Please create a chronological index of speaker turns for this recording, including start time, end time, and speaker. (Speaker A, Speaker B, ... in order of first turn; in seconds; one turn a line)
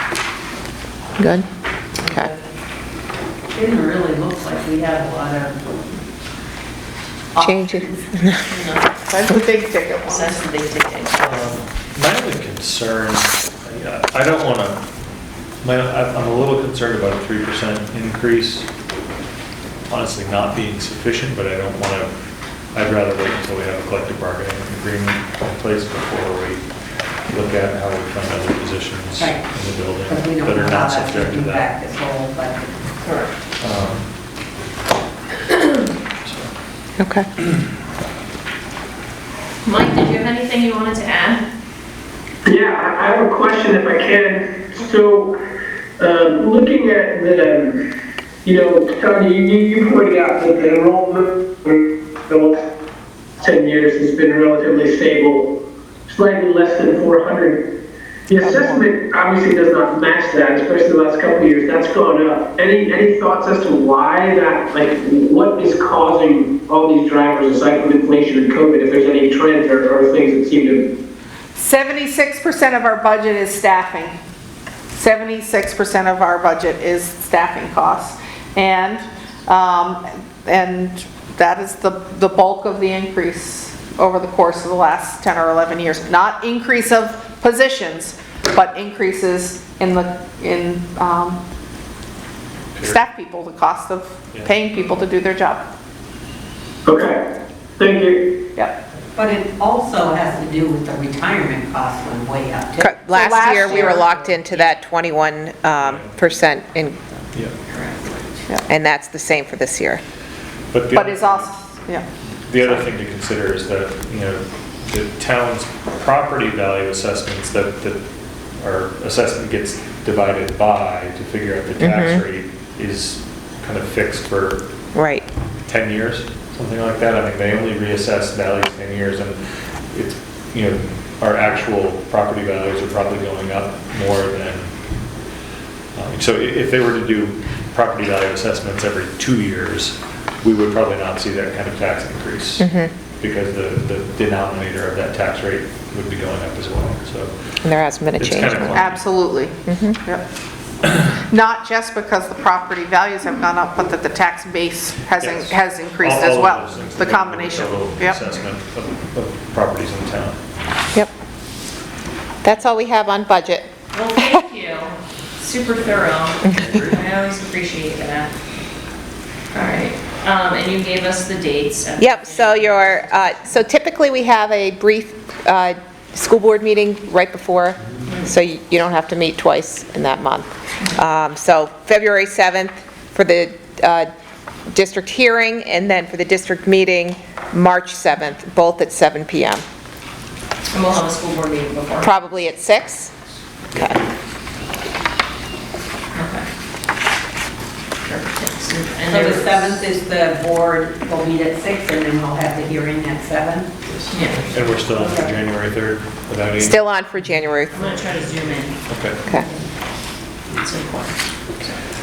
Speaker A: 1.2-1.4
Speaker A: 2.0-2.3
Speaker B: 2.1-2.4
Speaker B: 3.5-5.8
Speaker B: 7.3-8.0
Speaker A: 7.4-8.5
Speaker C: 8.5-8.9
Speaker D: 9.1-10.3
Speaker C: 10.1-11.3
Speaker E: 11.2-14.8
Speaker E: 15.6-18.7
Speaker E: 19.9-22.1
Speaker E: 22.7-26.6
Speaker E: 27.3-31.6
Speaker B: 29.2-32.8
Speaker C: 33.0-33.3
Speaker E: 33.6-34.1
Speaker E: 36.2-36.5
Speaker A: 37.0-37.3
Speaker C: 39.6-41.4
Speaker F: 42.5-45.4
Speaker F: 46.0-47.8
Speaker F: 48.4-52.6
Speaker F: 53.4-57.7
Speaker F: 58.3-70.9
Speaker A: 58.4-58.8
Speaker D: 71.5-74.2
Speaker D: 74.9-91.4
Speaker E: 92.7-93.0
Speaker D: 92.8-95.6
Speaker F: 96.8-97.2
Speaker F: 97.8-98.4
Speaker B: 99.2-103.0
Speaker A: 102.8-107.0
Speaker D: 103.1-104.1
Speaker E: 105.8-106.3
Speaker C: 107.7-108.4
Speaker A: 108.7-110.0
Speaker E: 110.7-111.5
Speaker D: 110.9-112.0
Speaker E: 112.4-118.0
Speaker E: 118.6-124.7
Speaker A: 121.8-122.2
Speaker A: 124.9-125.2
Speaker E: 125.7-129.4
Speaker E: 129.9-134.8
Speaker E: 135.9-142.6
Speaker A: 142.6-142.9
Speaker E: 143.2-147.6
Speaker A: 147.6-148.9
Speaker E: 148.1-149.3
Speaker D: 148.7-150.2
Speaker A: 149.6-150.0
Speaker D: 151.2-158.2
Speaker E: 155.2-160.4
Speaker A: 162.4-163.7
Speaker C: 163.9-168.3
Speaker E: 166.6-166.9
Speaker C: 169.5-173.3
Speaker A: 172.0-184.1
Speaker C: 178.1-178.3
Speaker A: 184.7-189.6
Speaker C: 190.7-192.1
Speaker A: 192.0-193.1
Speaker A: 193.7-194.0
Speaker C: 196.1-196.4
Speaker C: 198.0-199.8
Speaker B: 199.1-203.7
Speaker E: 204.0-206.8
Speaker C: 204.1-204.6
Speaker B: 204.9-205.3
Speaker A: 206.6-207.8
Speaker C: 207.7-209.6
Speaker E: 208.9-209.2
Speaker C: 210.5-211.8